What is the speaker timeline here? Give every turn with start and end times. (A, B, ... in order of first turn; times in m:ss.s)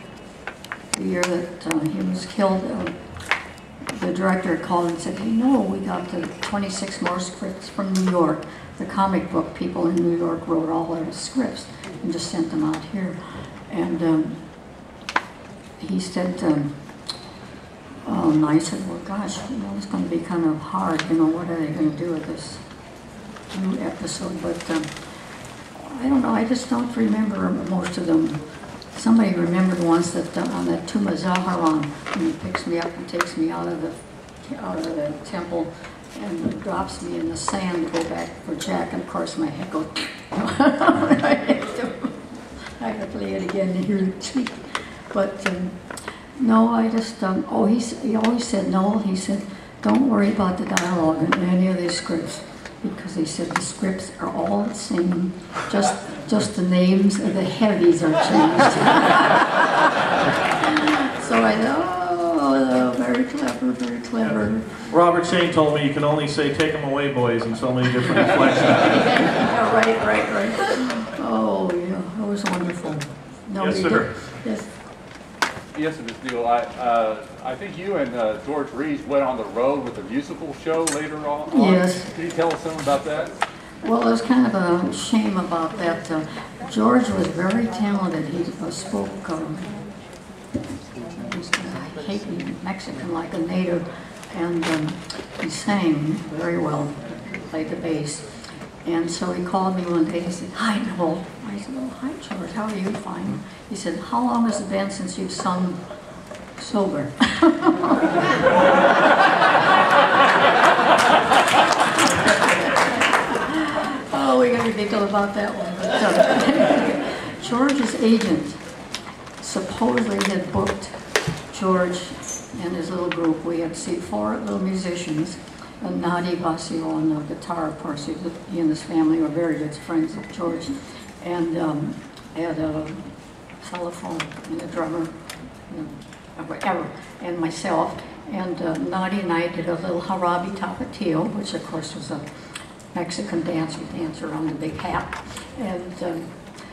0:00.9-0:03.0 A
0:03.9-0:14.4 A
0:15.8-0:16.7 A
0:18.0-0:22.6 A
0:23.5-0:24.9 A
0:25.8-0:45.8 A
0:46.4-1:04.8 A
1:04.9-1:09.2 B
1:08.0-1:14.7 A
1:13.6-1:14.1 B
1:15.7-1:23.3 C
1:21.5-1:22.1 A
1:23.8-1:29.7 A
1:31.1-1:38.3 A
1:38.8-1:45.8 A
1:46.6-1:49.6 A
1:51.8-1:58.6 A
1:59.4-2:13.1 A
2:13.6-2:15.2 A
2:15.7-2:22.2 A
2:22.9-2:26.4 A